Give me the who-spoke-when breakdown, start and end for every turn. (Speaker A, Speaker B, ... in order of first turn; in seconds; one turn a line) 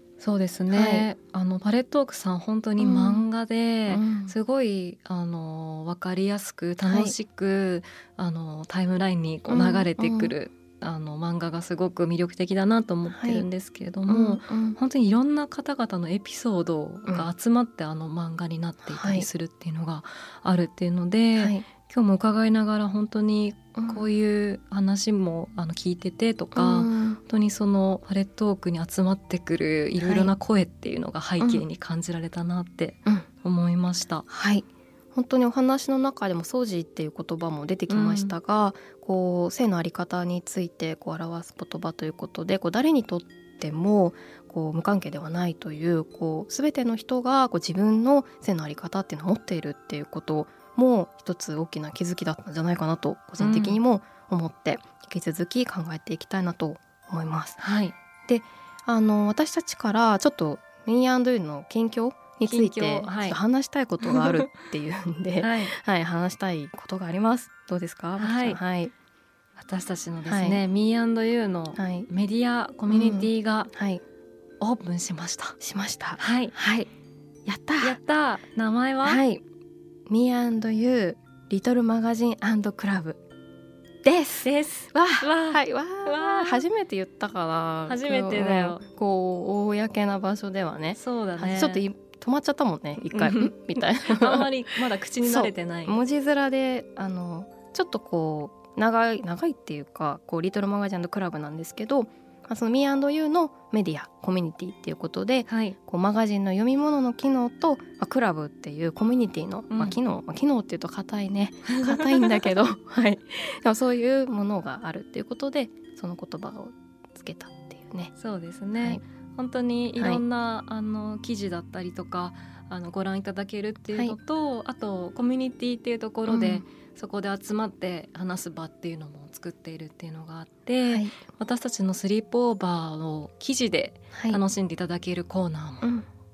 Speaker A: 0.2-34.2
Speaker B: 0.7-1.1
Speaker B: 2.8-3.3
Speaker B: 3.9-4.3
Speaker B: 6.9-7.1
Speaker B: 9.5-10.3
Speaker B: 13.1-13.4
Speaker B: 14.1-14.8
Speaker B: 18.9-19.3
Speaker B: 21.4-21.7
Speaker B: 23.8-24.1
Speaker B: 26.5-27.2
Speaker B: 30.0-30.3
Speaker B: 31.4-31.6
Speaker B: 34.3-57.6
Speaker A: 37.9-38.4
Speaker A: 53.4-53.8
Speaker A: 57.6-58.0
Speaker B: 58.3-68.9
Speaker A: 62.5-63.4
Speaker A: 64.0-64.5
Speaker A: 65.4-65.7
Speaker A: 68.2-68.6
Speaker A: 69.6-73.7
Speaker B: 70.2-70.6
Speaker B: 71.8-72.1
Speaker B: 72.9-74.0
Speaker A: 74.6-75.6
Speaker B: 75.6-76.9
Speaker A: 76.2-76.6
Speaker B: 77.5-78.0
Speaker A: 77.8-79.2
Speaker B: 79.0-79.4
Speaker B: 80.1-83.2
Speaker B: 84.0-94.5
Speaker A: 84.4-86.6
Speaker A: 87.9-88.8
Speaker A: 91.0-91.8
Speaker A: 93.1-96.0
Speaker B: 95.2-118.1
Speaker A: 105.5-105.8
Speaker A: 109.7-110.0
Speaker A: 111.9-112.2
Speaker A: 118.2-135.9
Speaker B: 118.8-119.0
Speaker B: 120.0-120.2
Speaker B: 126.3-126.7
Speaker B: 130.9-131.2
Speaker B: 134.1-134.4